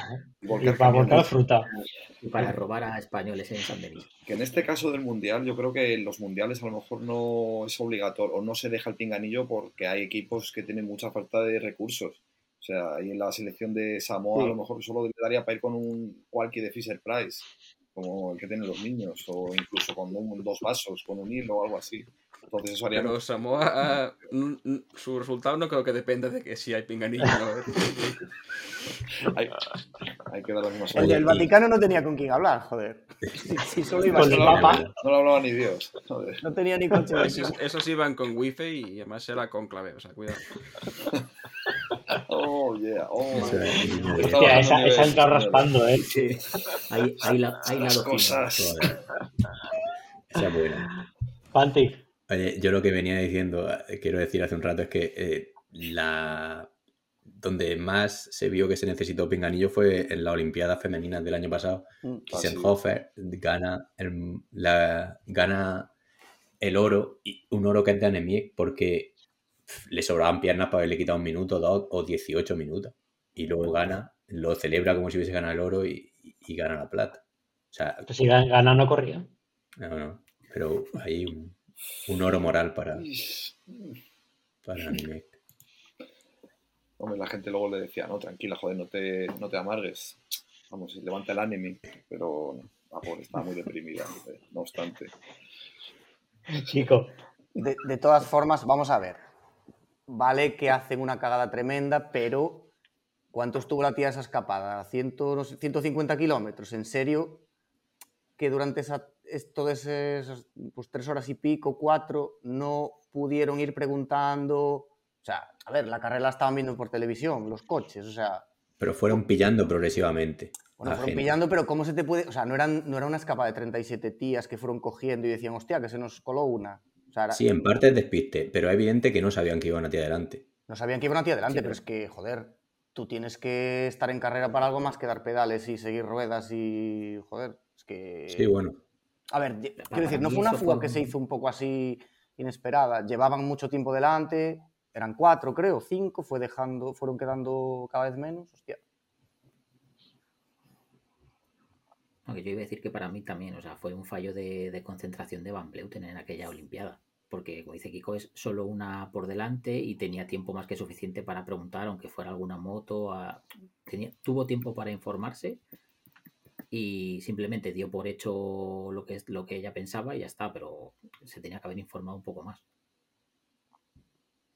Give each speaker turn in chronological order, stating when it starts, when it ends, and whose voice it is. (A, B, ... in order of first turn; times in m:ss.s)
0:00.4-0:01.4 A
0:00.6-0:01.7 B
0:02.2-0:04.1 C
0:04.2-0:23.2 A
0:22.9-0:28.3 D
0:29.2-0:29.6 A
0:30.3-0:31.5 A
0:30.9-0:34.6 E
0:31.0-0:31.5 F
0:33.9-0:36.4 A
0:34.1-0:34.8 B
0:34.3-0:34.9 F
0:36.4-0:37.6 E
0:37.2-0:40.4 D
0:42.2-0:45.7 A
0:43.3-0:44.2 C
0:43.4-0:44.6 F
0:44.2-0:46.1 B
0:46.1-0:48.7 C
0:47.8-0:48.8 A
0:48.6-0:49.0 F
0:50.3-0:50.9 F
0:51.5-0:52.0 B
0:52.3-0:56.7 F
0:57.3-1:05.9 F
1:02.3-1:02.7 A
1:06.6-1:09.1 F
1:09.7-1:18.1 F
1:18.1-1:19.2 B
1:19.8-1:21.6 F
1:22.1-1:23.0 F
1:23.0-1:23.9 A
1:24.6-1:25.4 F
1:27.0-1:35.1 A
1:36.7-1:37.1 B
1:37.6-1:39.2 E
1:40.1-1:42.7 E
1:43.3-1:47.4 E
1:48.4-1:58.4 E
1:58.8-2:01.4 F
2:00.8-2:07.4 E
2:07.3-2:10.4 F
2:10.7-2:18.5 E
2:11.5-2:11.8 C
2:18.3-2:18.8 F
2:19.3-2:28.8 E
2:19.8-2:21.1 C
2:32.2-2:45.6 C
2:46.7-2:52.6 C